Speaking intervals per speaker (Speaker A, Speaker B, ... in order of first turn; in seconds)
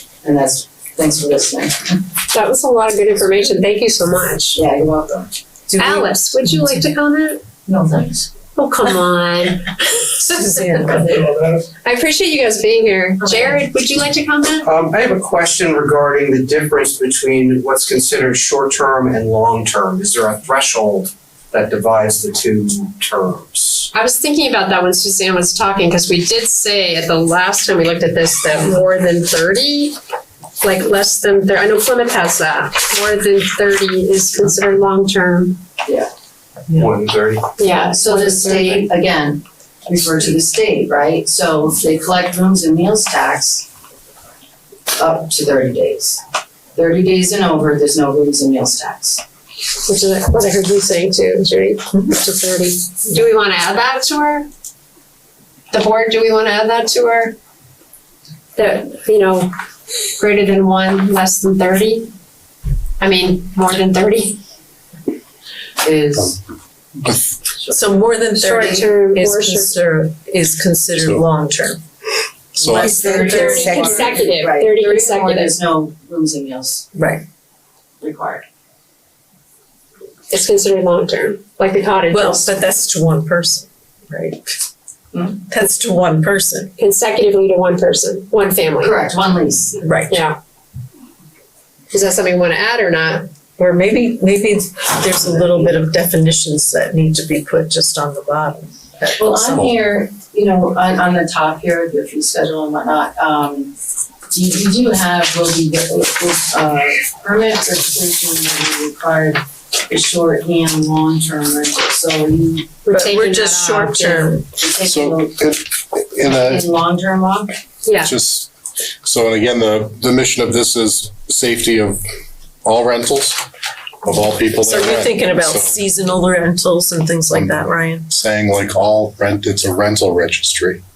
Speaker A: 0.2-2.0, 4.5-5.3, 7.7-8.3, 37.9-43.7, 44.9-46.2, 46.8-49.2, 65.8-66.4, 72.6-76.9, 78.0-78.5, 85.1-85.4, 88.8-89.8, 99.2-103.7, 104.3-112.8, 114.5-115.5, 116.2-117.6
Speaker B: 2.3-4.6, 5.8-7.4, 8.6-10.8, 11.8-14.7, 23.9-30.0, 30.6-35.6, 37.6-38.9, 49.9-54.5, 55.7-57.4, 58.6-59.5, 60.2-62.1, 63.0-64.4, 68.4-69.7, 73.2-75.5, 80.3-82.5, 86.8-89.0, 90.1-90.4, 91.9-93.3, 112.9-114.4, 117.8-118.1
Speaker C: 5.7-6.1, 10.4-11.0, 67.7-71.8, 72.7-74.2, 76.9-77.2, 82.1-84.5, 85.5-86.7, 89.8-90.3, 93.6-99.7, 112.9-114.4, 124.6-128.1
Speaker D: 14.6-23.9, 36.7-37.5
Speaker E: 71.0-71.2, 72.6-73.2, 114.8-116.7, 118.0-118.5, 119.0-122.0, 122.6-123.4, 124.0-125.8, 127.3-130.8